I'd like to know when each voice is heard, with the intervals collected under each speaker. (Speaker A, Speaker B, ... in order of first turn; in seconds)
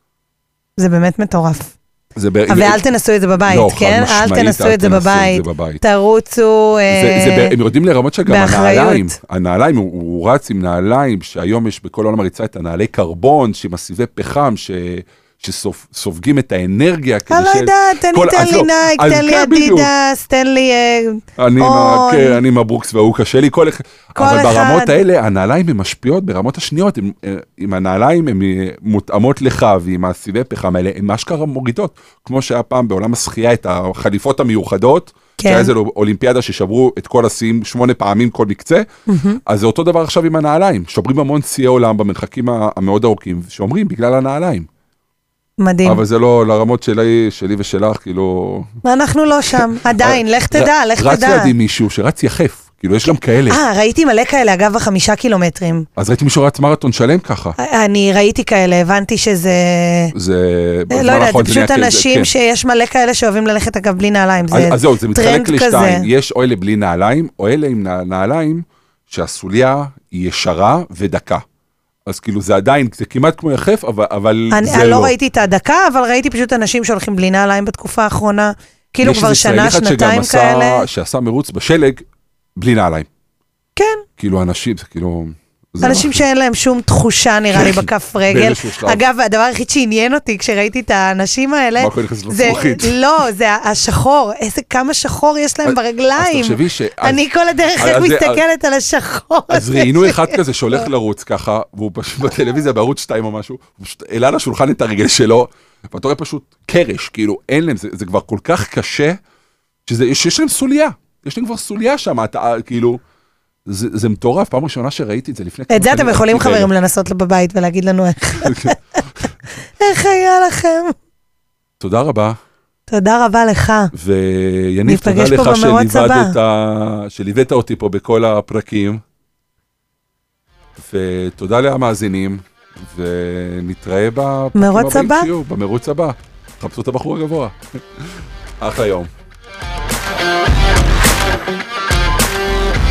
Speaker A: 0.8-1.8, 2.5-7.5, 8.3-9.1, 17.3-22.4, 24.2-24.9, 35.4-35.7, 39.1-39.4, 45.6-46.0, 48.8-51.5, 53.5-55.9, 57.6-60.1, 60.9-66.1, 74.5-80.9, 83.8-84.0, 85.8-100.4, 115.7-118.8, 119.8-120.9, 122.9-123.9, 124.9-126.3, 134.6-135.3
Speaker B: 2.2-2.8, 3.4-5.8, 6.9-19.9, 21.4-38.9, 39.5-44.7, 45.8-48.7, 49.5-53.6, 56.0-57.6, 60.1-62.3, 64.5-71.4, 72.1-75.1, 79.0-82.0, 82.6-83.1, 84.2-86.2, 87.5-89.0, 91.8-93.0, 95.7-97.2, 97.8-98.4, 99.5-109.2, 109.9-113.0, 113.7-116.7, 118.4-118.7, 121.8-122.4, 123.9-129.0, 130.8-139.1